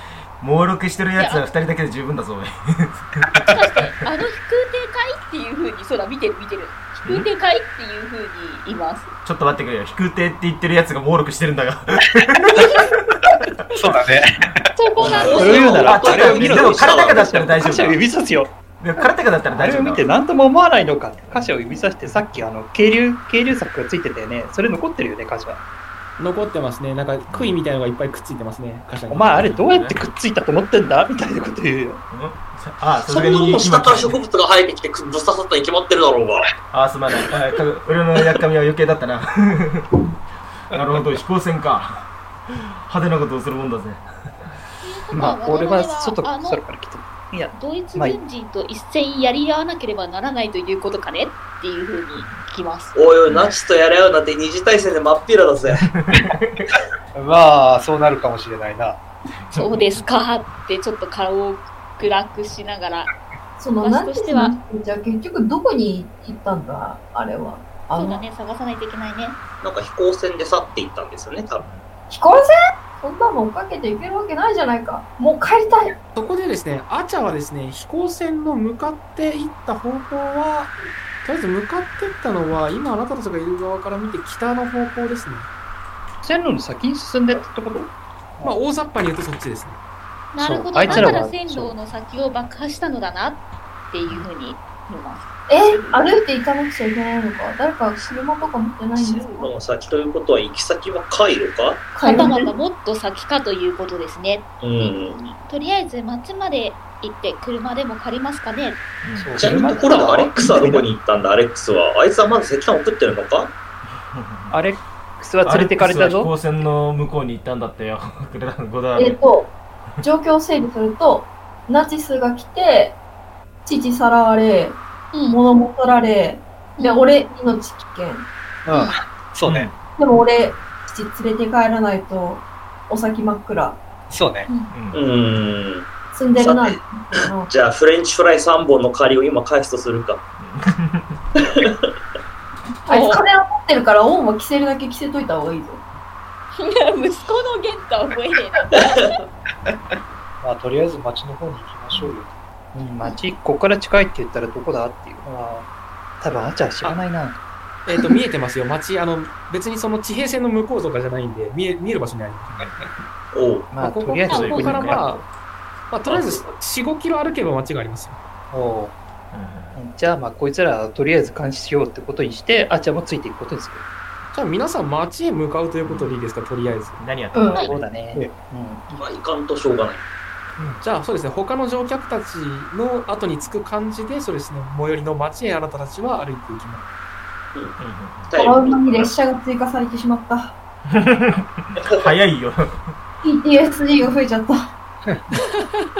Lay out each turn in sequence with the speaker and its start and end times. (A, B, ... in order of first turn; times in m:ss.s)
0:00.4-0:03.8 A
0:01.2-0:01.4 B
0:03.5-0:09.1 B
0:09.2-0:12.9 A
0:13.7-0:15.4 C
0:14.8-0:16.1 B
0:15.0-0:18.0 A
0:15.2-0:17.3 D
0:15.2-0:25.6 E
0:18.8-0:20.0 A
0:26.2-0:29.6 F
0:27.3-0:27.6 A
0:29.1-0:32.0 E
0:29.3-0:30.0 A
0:32.1-0:34.2 A
0:33.1-0:36.4 D
0:36.7-0:40.0 A
0:40.7-0:44.5 A
0:44.8-0:46.6 B
0:45.1-0:48.2 E
0:47.5-0:52.9 B
0:52.9-0:55.8 D
0:53.2-0:53.5 A
0:55.7-0:56.7 A
0:57.1-0:59.0 C
0:59.5-1:00.0 A
0:59.6-1:03.1 B
1:03.6-1:08.2 G
1:03.8-1:04.5 B
1:07.9-1:09.4 B
1:09.6-1:11.6 D
1:12.1-1:16.0 G
1:16.2-1:25.5 F
1:26.2-1:28.5 E
1:28.4-1:29.8 F
1:30.3-1:36.1 B
1:30.4-1:31.7 E
1:35.5-1:39.5 G
1:39.0-1:41.9 D
1:41.9-1:42.5 G
1:42.0-1:48.8 B
1:44.6-1:45.2 D
1:49.0-1:49.5 A
1:49.2-1:50.8 E
1:49.3-1:53.5 D
1:54.1-1:54.6 A
1:54.5-1:56.3 E
1:55.4-1:59.2 A
1:58.9-1:59.5 G
2:00.0-2:03.0 G
2:03.6-2:08.2 G
2:05.1-2:05.4 B
2:06.8-2:07.1 B
2:08.6-2:09.7 C
2:09.4-2:09.8 A
2:10.0-2:13.8 G
2:14.1-2:14.5 C
2:14.5-2:14.7 B
2:14.7-2:15.1 A
2:14.9-2:20.2 D
2:16.1-2:17.5 G
2:20.4-2:21.2 A
2:21.4-2:21.9 D
2:22.9-2:25.8 G
2:22.9-2:23.2 B
2:26.5-2:29.1 B
2:28.8-2:29.2 D
2:30.4-2:32.3 C
2:31.9-2:32.2 A
2:32.7-2:35.7 E
2:36.2-2:37.4 E
2:37.9-2:42.7 F
2:43.3-2:43.7 D
2:43.7-2:45.2 E
2:43.8-2:45.2 F
2:44.3-2:44.8 B
2:44.3-2:45.0 A
2:45.9-2:48.2 F
2:46.1-2:46.4 D
2:48.5-2:49.0 C
2:49.3-2:49.7 A
2:49.7-2:53.8 E
2:54.3-2:57.0 F
2:55.8-2:56.1 A
2:57.0-2:58.1 A
2:57.3-2:57.7 G
2:57.6-2:59.0 E
2:59.0-3:00.0 D
3:00.8-3:06.9 F
3:07.8-3:08.4 A
3:08.3-3:09.1 D
3:08.4-3:10.5 G
3:10.9-3:12.6 A
3:13.2-3:14.6 G
3:15.4-3:15.6 F